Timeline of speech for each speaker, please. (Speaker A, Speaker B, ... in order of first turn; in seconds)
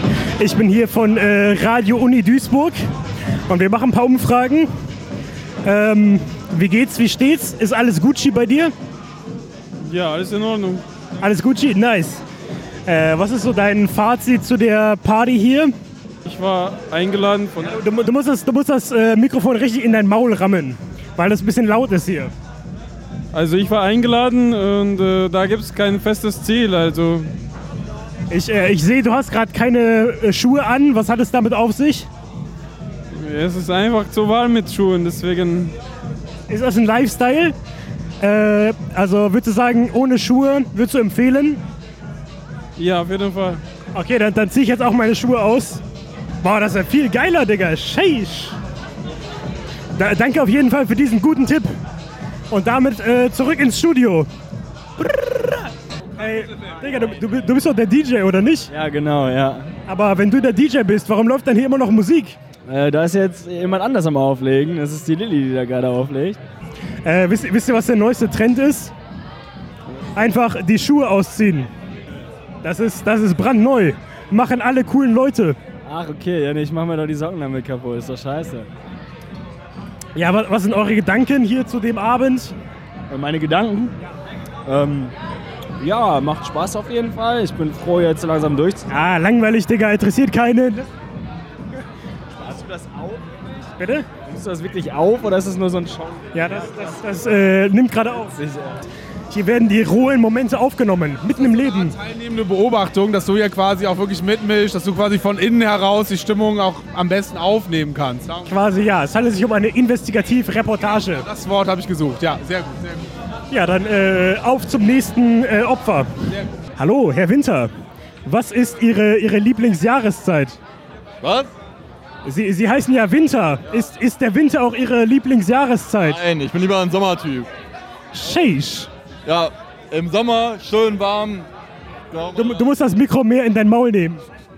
Speaker A: 0.4-2.8, 3.5-4.7, 5.6-8.7, 11.2-12.2, 12.8-15.7, 17.7-22.3, 28.3-32.1, 36.5-37.5, 38.2-41.6, 43.9-45.8, 46.4-48.6, 50.0-51.7, 52.5-54.3, 55.0-58.7, 59.9-62.4, 67.0-68.9, 70.1-71.7, 72.6-75.6, 80.1-82.5, 88.9-90.9, 93.8-94.1, 96.3-98.3, 99.3-102.0, 108.5-111.3, 113.5-116.1, 116.8-117.7, 118.2-120.6, 122.2-126.2, 128.1-128.9, 132.3-134.2
Speaker B: 9.8-10.8, 16.2-17.8, 23.3-27.3, 33.1-35.7, 42.8-43.6
Speaker C: 58.7-59.7, 62.7-66.4, 75.8-78.7, 83.1-84.0, 84.7-85.1, 85.8-88.9, 92.3-93.5, 94.2-97.1, 98.2-98.8
Speaker D: 101.6-108.5, 111.2-113.1
Speaker E: 121.2-121.5, 126.0-127.5, 129.2-131.5, 132.1-132.7